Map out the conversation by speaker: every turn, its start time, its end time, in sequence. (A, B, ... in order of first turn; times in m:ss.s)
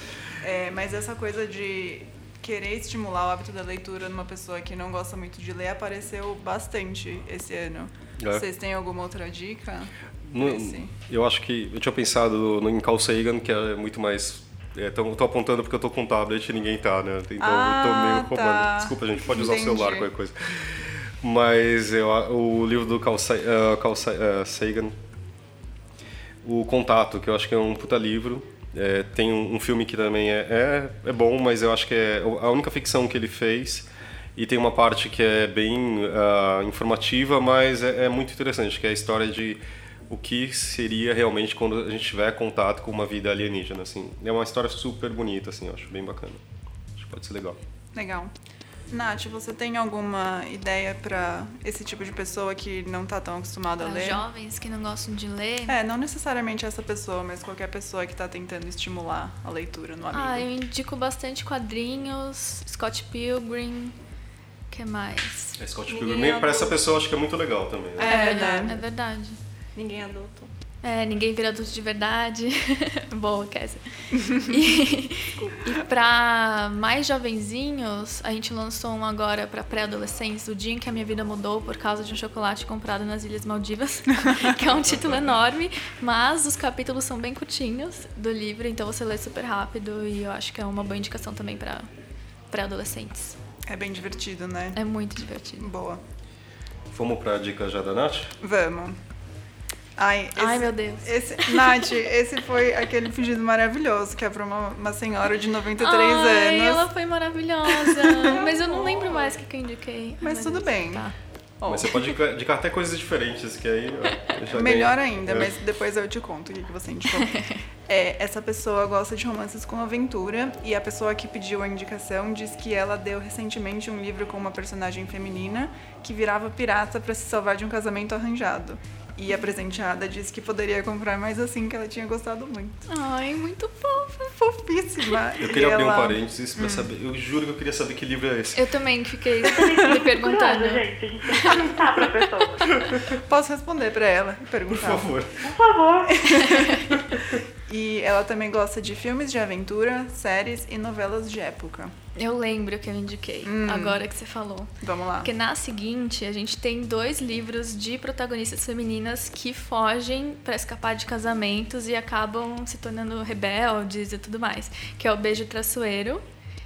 0:00.4-0:10.9 A
0:08.2-0:08.4 B
0:10.2-0:25.0 B
0:17.4-0:20.1 A
0:26.4-0:46.4 B
0:46.9-0:47.6 B
0:47.9-0:48.3 A
0:48.9-0:54.2 A
0:53.8-0:55.8 C
0:55.7-1:00.5 A
1:00.1-1:04.0 C
1:04.7-1:05.6 C
1:05.6-1:08.2 B
1:05.9-1:06.8 D
1:08.0-1:08.8 D
1:08.0-1:09.4 C
1:08.1-1:08.7 A
1:09.7-1:10.5 D
1:10.8-1:31.9 C
1:15.4-1:15.7 D
1:32.5-1:33.4 C
1:33.7-1:34.8 A
1:34.7-1:35.7 C
1:35.6-1:36.0 A
1:36.9-1:38.3 B
1:38.4-1:39.0 A
1:40.0-1:46.9 A
1:40.4-1:41.9 C
1:45.8-1:51.1 C
1:47.7-1:49.3 A
1:50.2-1:51.9 A
1:51.6-1:55.5 B
1:54.5-2:12.8 A
2:12.9-2:15.2 C
2:14.6-2:16.8 A
2:15.4-2:18.8 B
2:18.5-2:20.8 C
2:19.4-2:23.0 E
2:23.1-2:25.1 A
2:24.7-2:25.4 B
2:25.4-2:26.3 E
2:26.0-2:26.8 A
2:26.5-2:26.8 C
2:27.7-2:31.9 A
2:32.2-2:46.2 C
2:33.4-2:34.0 A
2:34.8-2:35.3 A